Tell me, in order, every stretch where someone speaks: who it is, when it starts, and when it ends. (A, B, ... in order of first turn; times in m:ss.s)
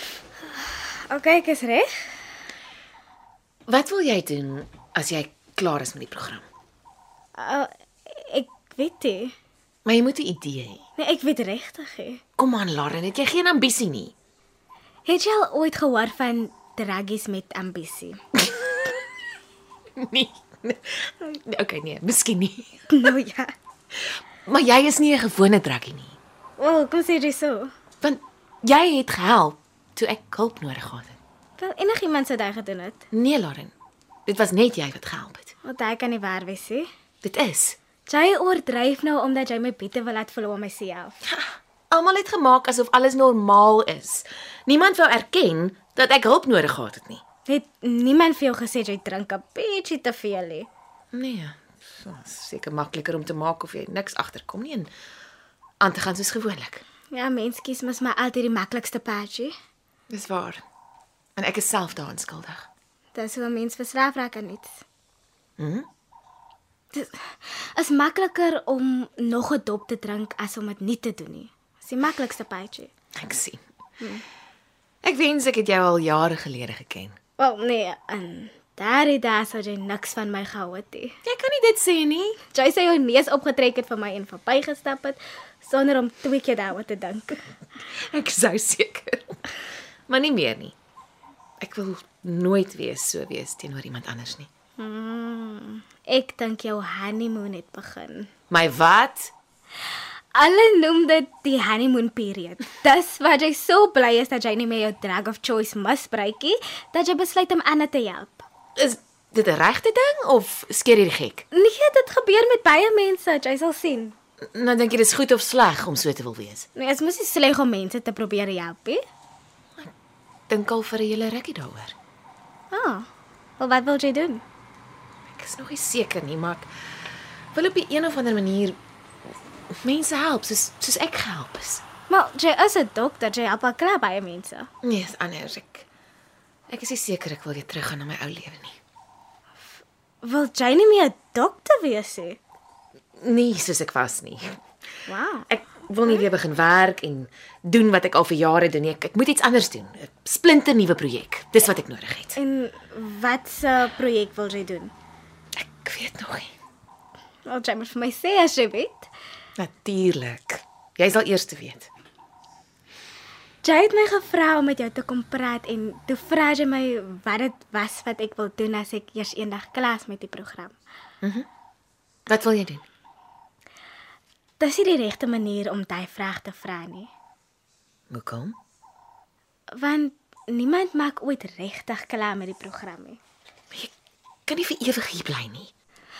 0:00.6-0:02.1 A
0:03.7-0:06.5 B
0:07.4-0:09.3 A
0:09.8-0:10.8 B
0:11.0-0:12.2 A
0:12.4-0:14.1 B
0:15.0-0:18.2 A
0:20.0-0:23.1 B
0:22.9-0:23.5 A
0:24.5-0:26.2 B
0:26.6-0:27.7 A
0:28.0-0:31.2 B
0:31.6-0:33.0 A
0:33.1-0:33.7 B
0:34.2-0:35.5 B
0:35.6-0:36.9 A
0:37.2-0:37.8 B
0:38.1-0:41.2 A
0:41.2-0:47.2 B
0:47.5-0:50.7 A
0:51.1-0:54.9 B
0:55.8-0:56.8 B
0:57.1-0:59.5 A
1:00.1-1:00.6 B
1:01.4-1:02.7 B
1:03.1-1:04.7 A
1:05.6-1:05.9 B
1:06.9-1:12.9 A
1:13.2-1:13.6 B
1:15.0-1:17.2 B
1:17.4-1:21.2 A
1:21.3-1:22.4 B
1:22.5-1:27.4 A
1:27.9-1:29.4 B
1:30.1-1:30.8 B
1:31.6-1:34.5 B
1:34.8-1:38.3 A
1:38.5-1:39.3 B
1:40.3-1:48.4 A
1:48.8-1:51.4 B
1:51.5-1:54.2 A
1:54.5-1:56.7 B
1:56.8-1:59.0 A
2:00.5-2:01.9 B
2:02.7-2:03.1 A
2:03.6-2:04.4 A
2:05.3-2:06.7 B
2:07.5-2:08.8 B
2:09.8-2:11.8 B
2:12.1-2:14.7 A
2:14.8-2:15.9 B
2:16.7-2:18.8 B
2:19.8-2:22.4 A
2:23.2-2:24.6 B
2:25.1-2:25.5 A
2:25.5-2:32.4 B
2:32.4-2:34.9 A
2:35.6-2:36.5 B
2:37.4-2:39.1 A
2:39.6-2:41.9 B
2:43.6-2:50.8 A
2:51.2-2:51.5 B
2:52.3-2:52.8 B
2:54.6-2:57.1 A
2:58.1-2:58.6 B
2:59.8-3:03.2 A
3:04.5-3:05.7 B